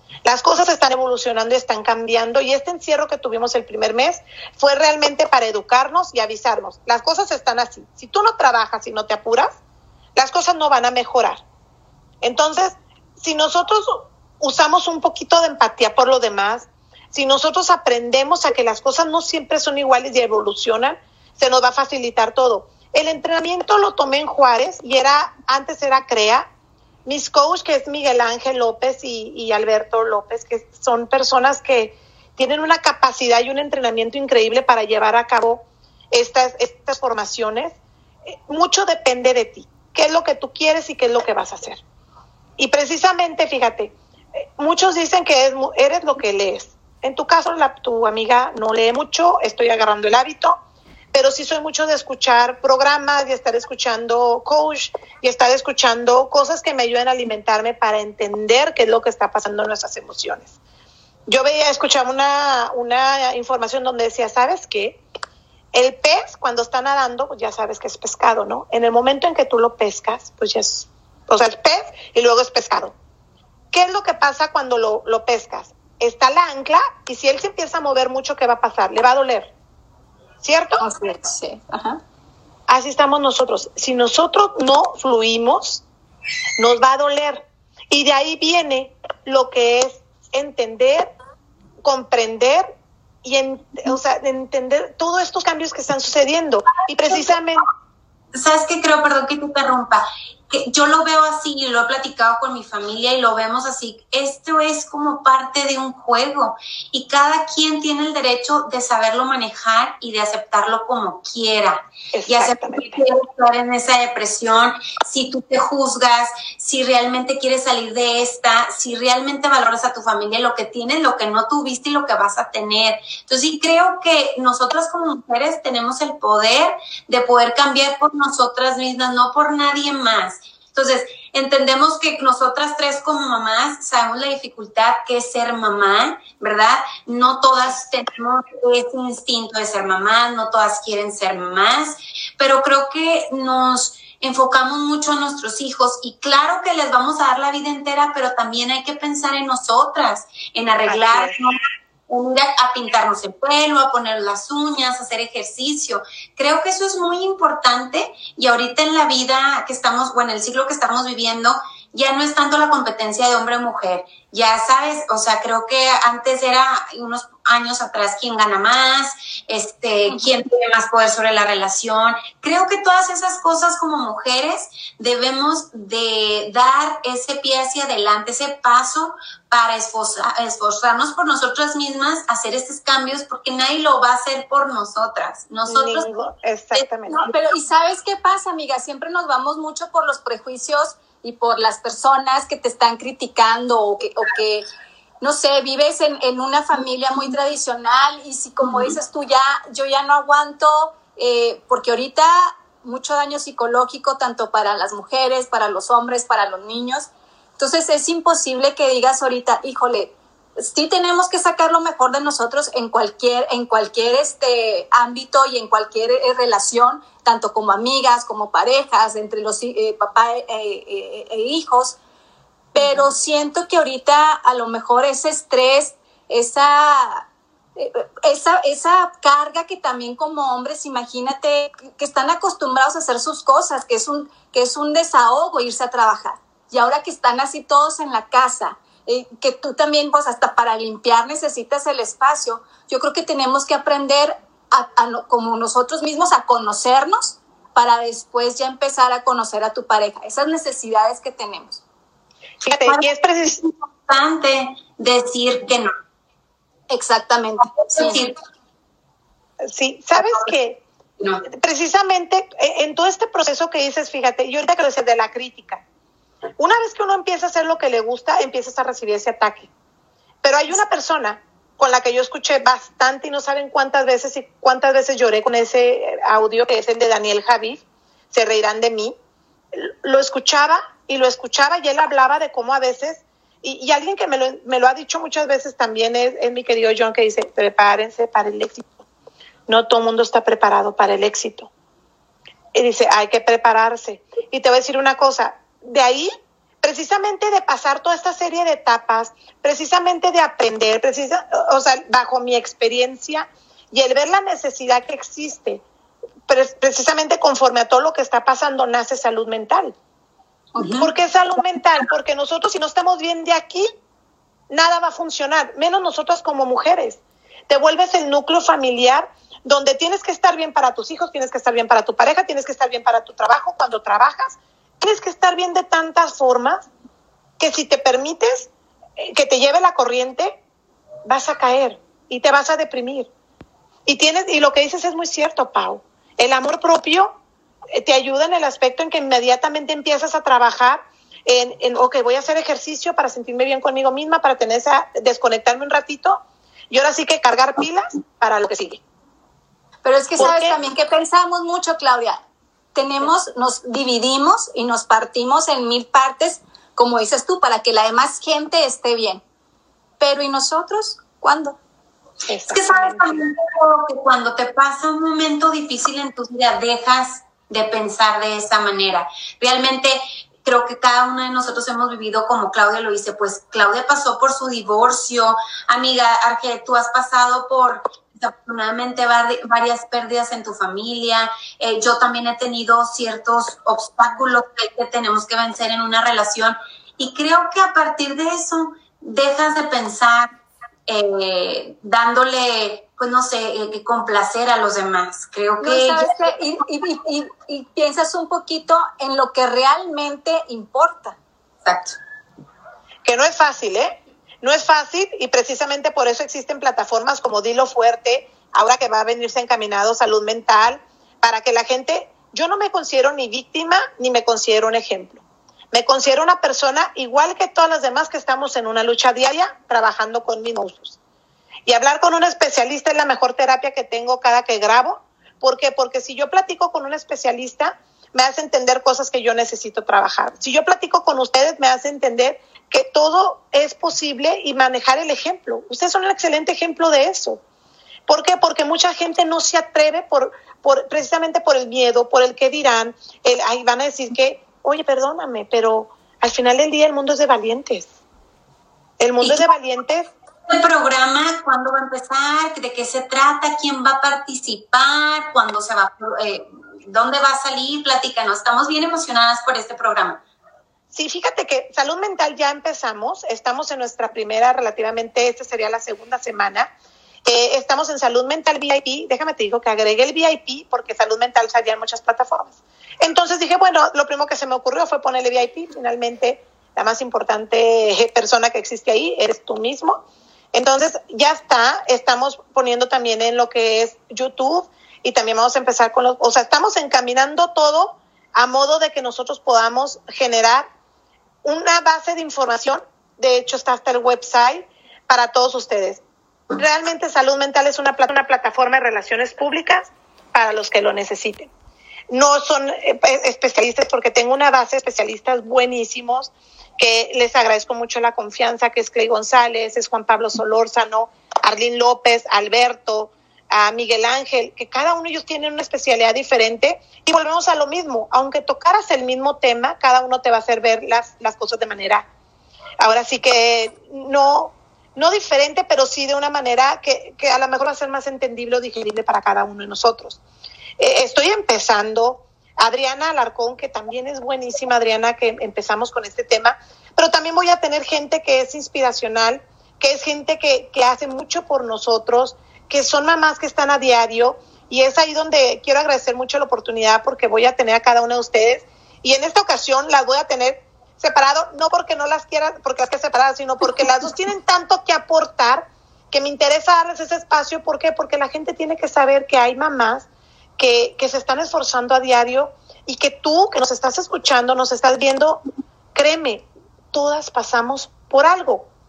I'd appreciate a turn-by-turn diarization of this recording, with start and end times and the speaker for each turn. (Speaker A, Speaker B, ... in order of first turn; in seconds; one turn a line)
Speaker A: 0.2-9.6
Speaker A: 10.2-11.4
Speaker A: 12.2-26.5
Speaker A: 27.0-37.8
Speaker A: 38.3-41.8
Speaker A: 42.6-50.6
Speaker A: 51.1-60.6
Speaker A: 61.3-65.0
Speaker A: 65.7-72.9
Speaker A: 73.7-79.5
Speaker A: 80.4-80.8
Speaker B: 80.8-82.0
Speaker A: 82.7-85.8
Speaker A: 86.6-91.1
Speaker A: 91.8-92.6
Speaker A: 93.2-97.6
Speaker C: 98.3-186.1
Speaker A: 112.1-113.0
Speaker A: 150.8-151.3
Speaker A: 185.7-187.3
Speaker C: 186.7-187.3
Speaker B: 187.1-194.7
Speaker B: 195.2-222.0
Speaker B: 222.7-251.8
Speaker C: 222.8-223.0
Speaker A: 252.6-253.6
Speaker C: 252.8-255.9
Speaker B: 256.9-258.2
Speaker C: 257.9-258.3
Speaker A: 259.6-260.8
Speaker C: 260.2-260.5
Speaker A: 261.5-265.8
Speaker A: 266.6-269.7
Speaker A: 270.4-279.1
Speaker A: 279.7-289.0
Speaker A: 289.7-291.7
Speaker A: 292.7-305.8
Speaker A: 306.5-309.9
Speaker B: 310.8-311.1
Speaker C: 310.8-311.0
Speaker A: 311.0-313.8
Speaker A: 314.7-326.9
Speaker A: 327.6-330.6
Speaker A: 331.3-333.3
Speaker A: 334.1-337.3
Speaker A: 337.9-349.0
Speaker B: 350.0-352.4
Speaker A: 350.4-350.8
Speaker B: 352.9-359.4
Speaker B: 360.2-361.8
Speaker A: 362.4-363.4
Speaker C: 362.6-390.5
Speaker C: 391.1-396.3
Speaker B: 395.8-401.4
Speaker C: 401.8-402.2
Speaker A: 403.2-421.2
Speaker A: 421.9-437.6
Speaker A: 438.3-448.1
Speaker A: 449.2-450.3
Speaker C: 450.7-460.4
Speaker A: 461.1-466.9
Speaker A: 467.4-480.2
Speaker A: 480.7-490.8
Speaker A: 491.6-496.2
Speaker A: 496.7-501.7
Speaker A: 502.3-522.3
Speaker A: 523.0-530.4
Speaker A: 531.0-560.3
Speaker A: 560.8-565.6
Speaker A: 566.1-568.9